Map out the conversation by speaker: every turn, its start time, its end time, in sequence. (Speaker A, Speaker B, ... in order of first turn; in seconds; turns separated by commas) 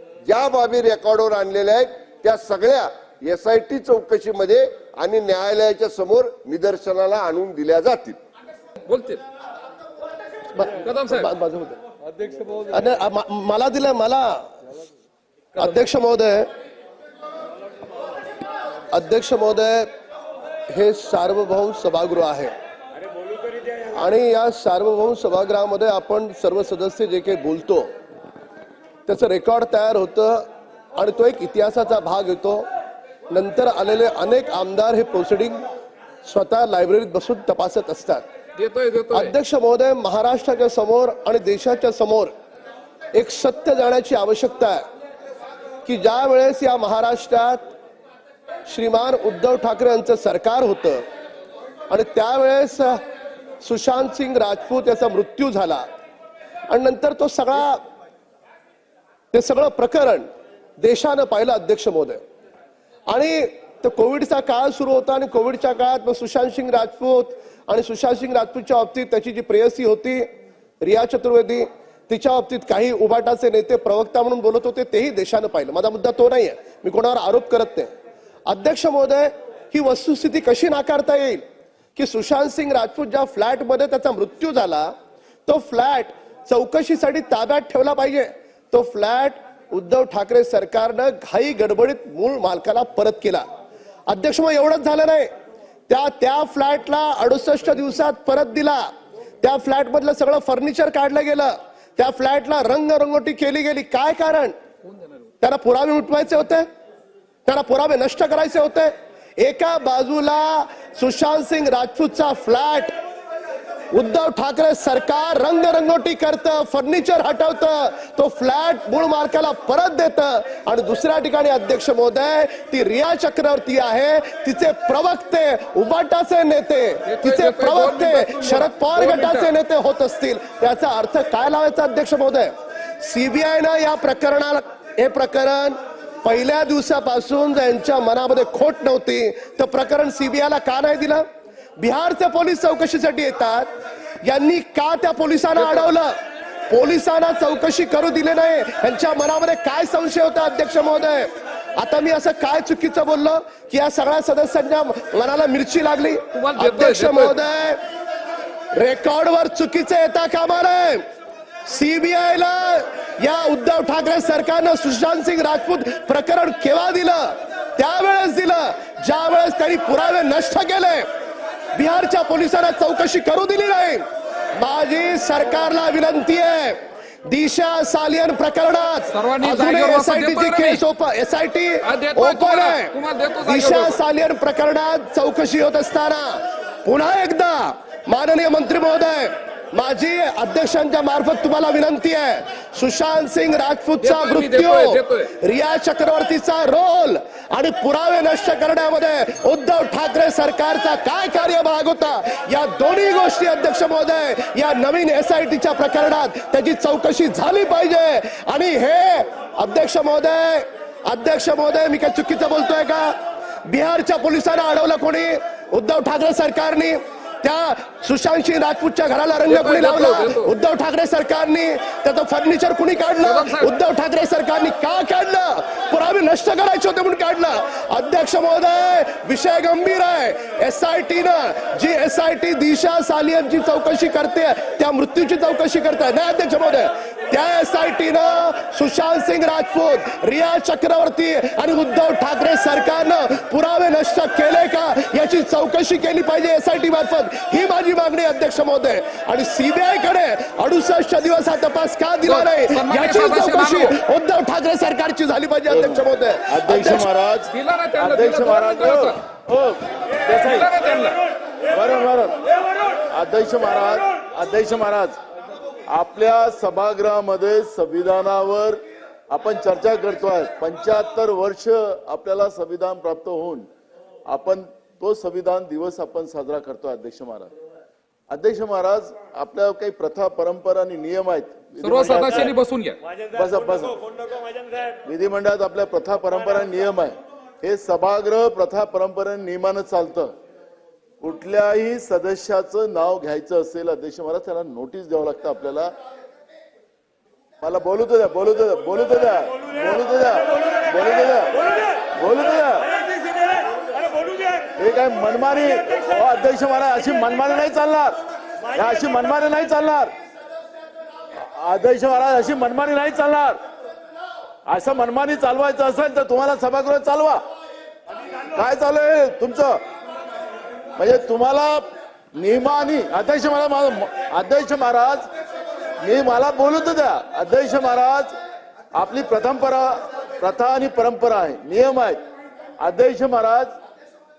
Speaker A: 0.2-8.2, Speaker B: 8.8-9.2, Speaker C: 10.5-11.8, Speaker B: 10.8-11.3, Speaker C: 12.5-14.5, Speaker C: 15.5-16.5, Speaker C: 18.9-19.9, Speaker C: 20.7-22.5, Speaker C: 23.9-27.9, Speaker C: 29.1-32.7, Speaker C: 33.3-35.6, Speaker C: 36.2-38.2, Speaker B: 38.6-39.3, Speaker C: 39.1-42.3, Speaker C: 43.1-44.9, Speaker C: 45.8-47.7, Speaker C: 48.6-51.0, Speaker C: 51.9-53.0, Speaker C: 53.6-55.9, Speaker C: 56.7-57.9, Speaker C: 59.3-60.3, Speaker C: 60.8-62.2, Speaker C: 63.1-77.9, Speaker C: 78.5-81.4, Speaker C: 82.0-84.9, Speaker C: 85.5-93.5, Speaker C: 94.1-95.3, Speaker C: 95.9-104.6, Speaker C: 105.4-106.7, Speaker C: 107.5-112.9, Speaker C: 113.9-141.3, Speaker B: 127.1-129.5, Speaker C: 141.8-143.7, Speaker C: 144.2-146.2, Speaker C: 146.7-157.8, Speaker B: 156.3-157.3, Speaker C: 158.7-161.1, Speaker C: 161.7-171.1, Speaker C: 171.7-182.9, Speaker B: 179.1-180.8, Speaker B: 181.8-184.0, Speaker C: 183.4-257.1, Speaker B: 194.0-195.3, Speaker B: 219.5-220.5, Speaker B: 223.2-223.7, Speaker B: 252.2-254.0, Speaker D: 255.7-260.7, Speaker B: 257.5-259.2, Speaker B: 260.3-261.2, Speaker D: 261.7-262.4, Speaker D: 263.1-265.2, Speaker D: 265.9-273.7, Speaker D: 274.3-277.5, Speaker D: 278.3-282.5, Speaker B: 281.8-283.0, Speaker D: 283.3-284.0, Speaker D: 285.0-290.3, Speaker D: 291.2-295.9, Speaker D: 297.6-301.6, Speaker D: 302.1-302.9, Speaker D: 304.8-308.2, Speaker D: 308.7-310.1, Speaker D: 311.6-313.6, Speaker D: 314.7-317.4, Speaker D: 318.5-319.8, Speaker D: 321.0-325.3, Speaker D: 326.0-328.3, Speaker D: 328.9-332.2, Speaker D: 332.8-333.7